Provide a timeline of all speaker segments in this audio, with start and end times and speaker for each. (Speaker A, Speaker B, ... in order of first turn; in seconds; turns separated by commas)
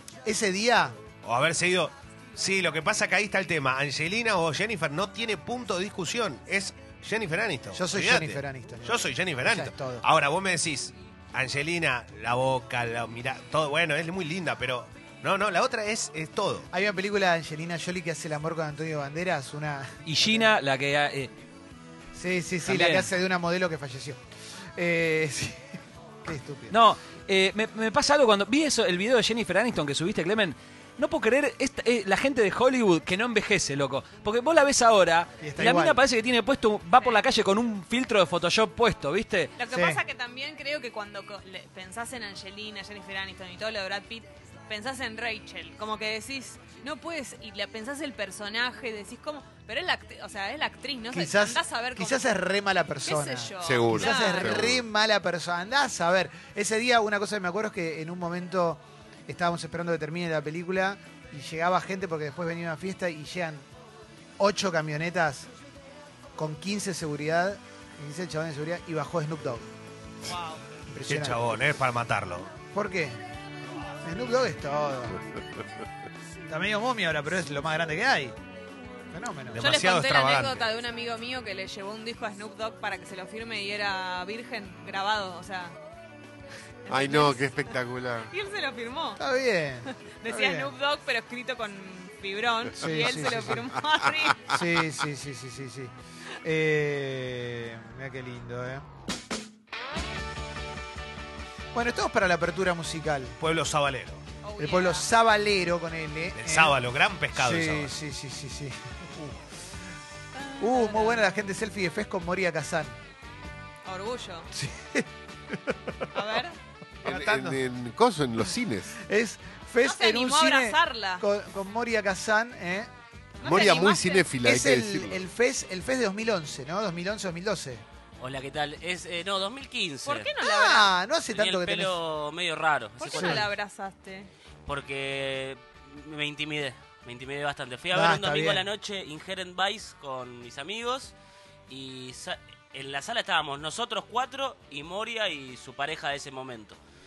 Speaker A: 0.2-1.0, Speaker B: 1.2-16.7, Speaker A: 7.8-10.1, Speaker A: 16.7-20.5, Speaker C: 20.1-21.3, Speaker A: 22.1-24.2, Speaker C: 22.7-23.1, Speaker A: 24.7-26.8, Speaker C: 26.7-39.5, Speaker A: 35.4-36.0, Speaker D: 37.0-37.3, Speaker D: 39.6-52.3, Speaker A: 39.7-40.0, Speaker A: 51.1-63.7, Speaker D: 53.0-54.7, Speaker E: 53.6-54.9, Speaker A: 64.4-65.5, Speaker A: 66.4-69.7, Speaker D: 70.3-70.6, Speaker A: 70.9-71.6, Speaker B: 71.1-72.5, Speaker A: 72.7-73.2, Speaker A: 74.0-75.2, Speaker E: 75.3-75.6, Speaker A: 76.5-78.4, Speaker A: 79.1-79.6, Speaker B: 79.5-80.7, Speaker D: 79.6-85.8, Speaker D: 86.8-89.2, Speaker E: 86.9-88.3, Speaker A: 89.2-90.7, Speaker D: 89.9-94.6, Speaker A: 92.8-93.7, Speaker E: 92.9-93.2, Speaker A: 94.5-98.9, Speaker A: 101.7-103.4, Speaker B: 103.4-104.2, Speaker D: 104.4-105.1, Speaker A: 104.6-106.8, Speaker B: 106.4-108.0, Speaker A: 107.3-109.4, Speaker D: 110.3-111.5, Speaker A: 110.6-113.0, Speaker D: 113.9-114.5, Speaker A: 114.5-115.8, Speaker D: 116.1-116.6, Speaker E: 117.0-119.0, Speaker B: 117.0-117.6, Speaker A: 119.0-122.9, Speaker D: 119.8-121.2, Speaker D: 123.4-124.3, Speaker E: 123.4-125.3, Speaker A: 123.5-123.8, Speaker A: 124.4-127.8, Speaker F: 128.2-130.3, Speaker D: 130.1-130.9, Speaker A: 130.4-132.0, Speaker F: 131.3-133.5, Speaker D: 133.0-134.3, Speaker A: 133.1-133.4, Speaker F: 134.7-141.2, Speaker A: 137.9-138.7, Speaker F: 141.7-146.8